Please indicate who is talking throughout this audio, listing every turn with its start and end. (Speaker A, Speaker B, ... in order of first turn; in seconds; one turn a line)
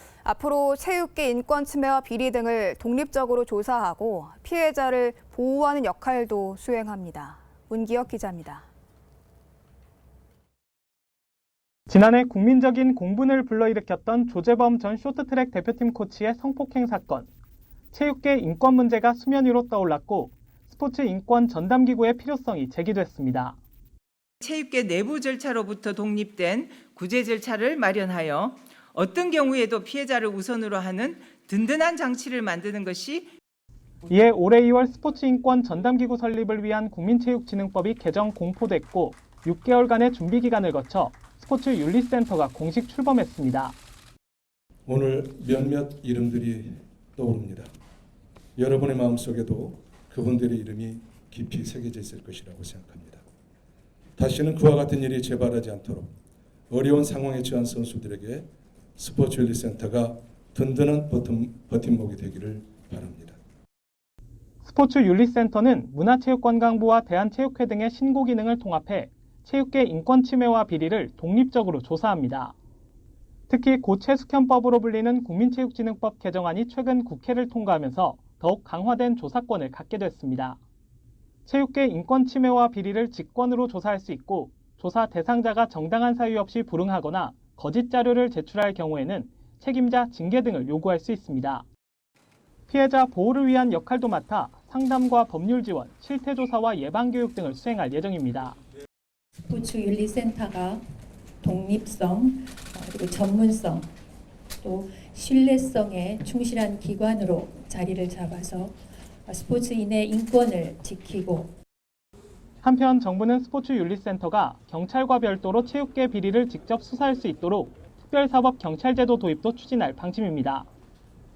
Speaker A: 0.2-8.6
Speaker B: 11.9-17.3
Speaker B: 17.9-23.6
Speaker C: 24.4-33.3
Speaker B: 34.1-43.8
Speaker D: 44.9-47.7
Speaker D: 48.5-53.2
Speaker D: 54.2-56.1
Speaker D: 56.7-63.4
Speaker B: 64.6-72.5
Speaker B: 73.5-80.6
Speaker B: 81.5-91.7
Speaker B: 92.7-98.6
Speaker E: 99.5-100.8
Speaker E: 101.4-103.9
Speaker E: 104.6-108.8
Speaker E: 109.3-111.5
Speaker B: 112.6-120.7